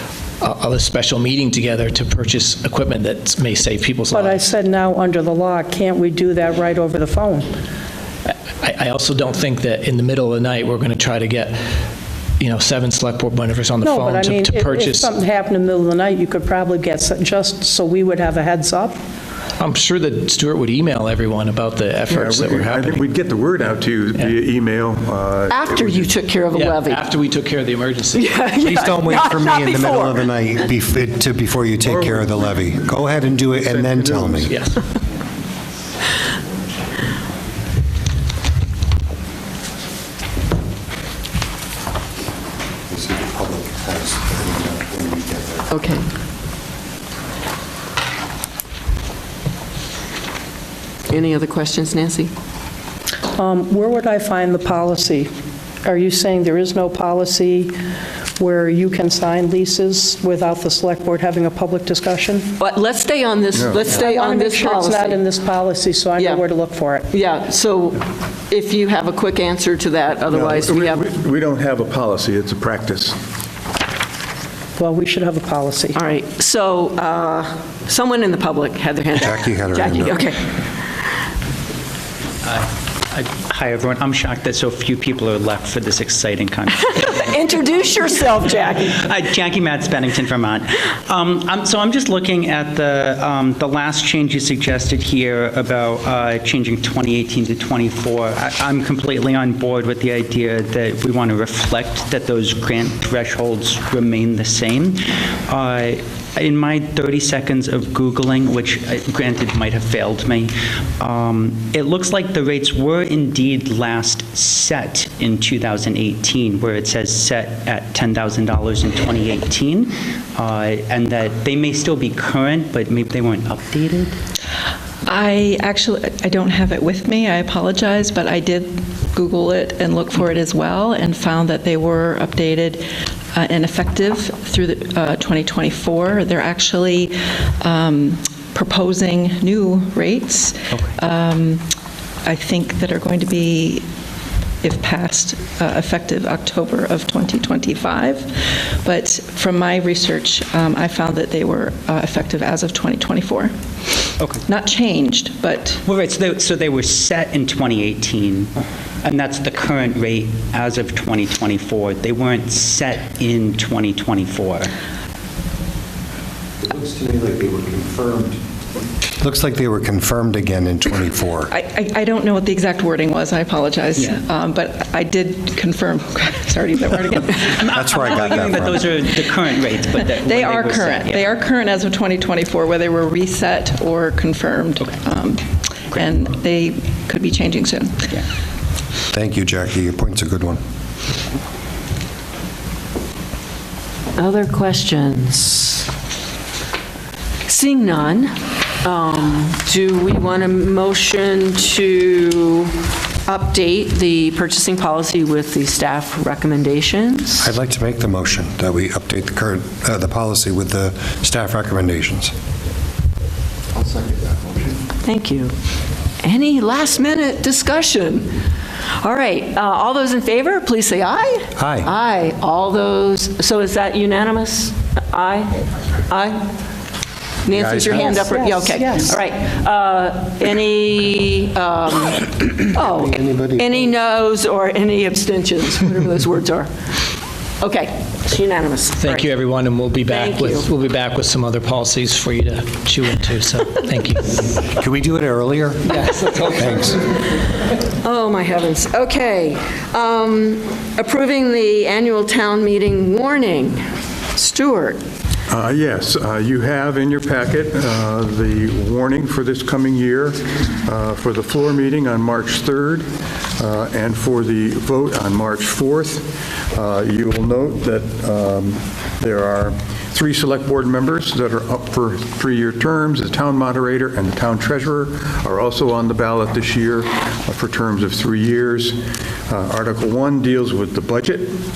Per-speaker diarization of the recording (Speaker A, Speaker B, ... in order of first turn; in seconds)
Speaker A: 0.4-4.4, 8.3-11.6, 12.4-15.1, 19.6-23.0, 26.5-28.4, 34.5-34.8, 239.0-244.3, 246.0-246.4
Speaker B: 4.1-7.5, 13.8-19.0, 53.4-55.3, 55.9-57.7, 58.4-62.5, 63.9-67.1, 74.8-76.0, 228.3-229.1
Speaker C: 22.1-26.1, 31.8-32.5, 33.5-34.6, 63.5-63.9, 70.3-73.2, 227.5-228.3, 255.5-263.1, 263.6-281.6
Speaker D: 25.5-27.0, 28.1-30.3, 45.7-46.0, 51.1-52.3, 62.6-65.2, 66.2-66.4, 67.1-71.0, 75.9-80.4, 86.8-89.0, 194.2-195.8, 197.5-202.7, 203.2-207.5, 215.0-215.5, 216.2-218.3, 218.9-226.4, 227.4-236.7, 237.6-239.3, 240.1-240.7, 247.9-253.8, 254.3-255.0
Speaker E: 28.6-34.5, 42.9-45.8, 79.2-80.2, 166.6-168.4, 169.2-171.5, 177.7-178.9, 189.1-190.6, 207.4-212.3, 221.6-221.9, 232.8-233.9, 244.7-247.0
Speaker F: 82.4-87.1, 88.9-124.2, 155.9-158.5, 159.0-164.7, 177.4-181.3
Speaker G: 125.1-141.7, 142.2-143.9, 144.6-153.5, 154.5-155.8, 171.5-177.5, 180.0-188.2